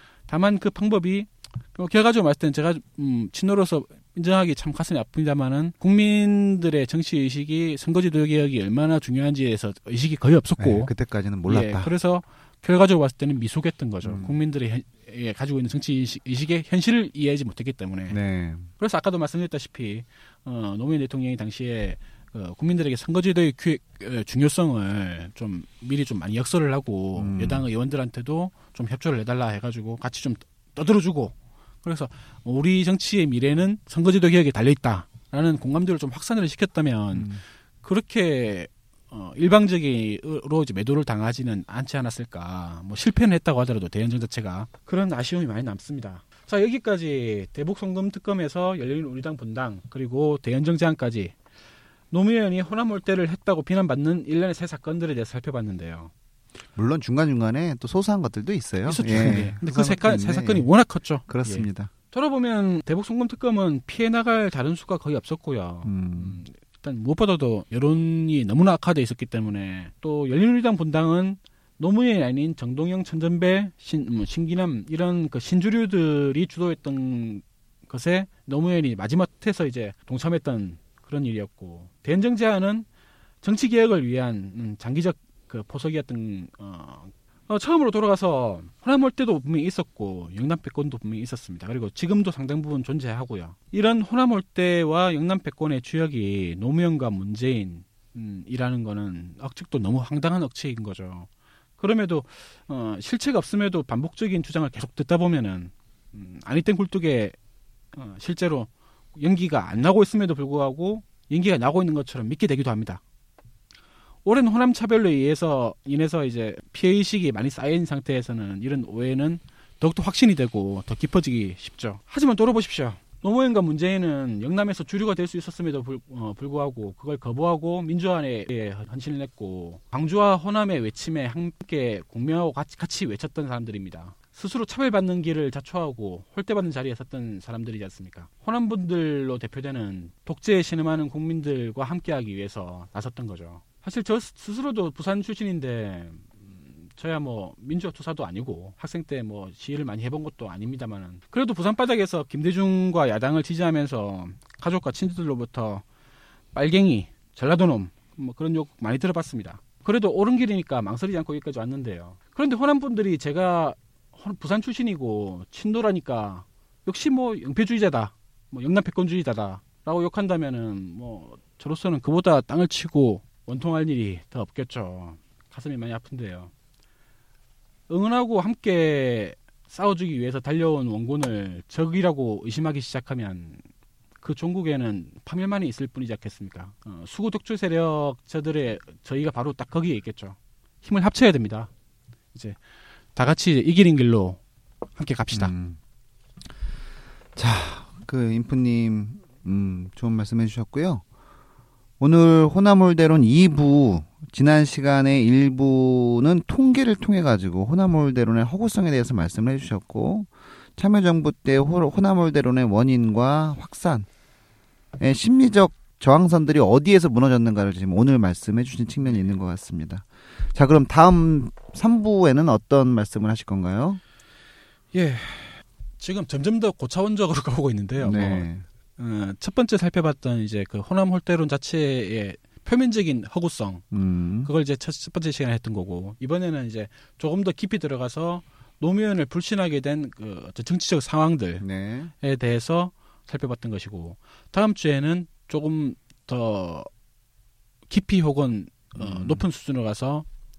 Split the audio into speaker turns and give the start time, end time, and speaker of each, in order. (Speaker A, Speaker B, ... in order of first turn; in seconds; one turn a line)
Speaker A: 0.3-10.9
Speaker B: 10.6-11.9
Speaker A: 11.5-18.2
Speaker B: 14.0-14.4
Speaker B: 18.1-18.7
Speaker A: 18.8-37.3
Speaker B: 27.2-27.6
Speaker B: 37.1-37.4
Speaker A: 37.8-51.4
Speaker A: 52.1-56.1
Speaker B: 56.8-60.7
Speaker A: 58.8-82.9
Speaker B: 61.3-61.9
Speaker B: 65.8-66.4
Speaker A: 83.4-107.3
Speaker A: 107.9-113.0
Speaker A: 114.2-155.8
Speaker A: 156.5-176.5
Speaker A: 177.9-183.6
Speaker A: 184.2-191.7
Speaker A: 193.2-194.4
Speaker A: 194.9-195.5
Speaker B: 195.3-195.8
Speaker B: 197.4-201.0
Speaker B: 202.0-214.1
Speaker B: 215.0-224.0
Speaker A: 219.0-219.3
Speaker A: 224.9-228.5
Speaker B: 228.0-228.6
Speaker A: 229.0-233.8
Speaker B: 233.9-234.5
Speaker A: 234.4-241.6
Speaker B: 241.6-242.1
Speaker A: 242.2-246.9
Speaker A: 247.9-250.3
Speaker B: 248.9-249.4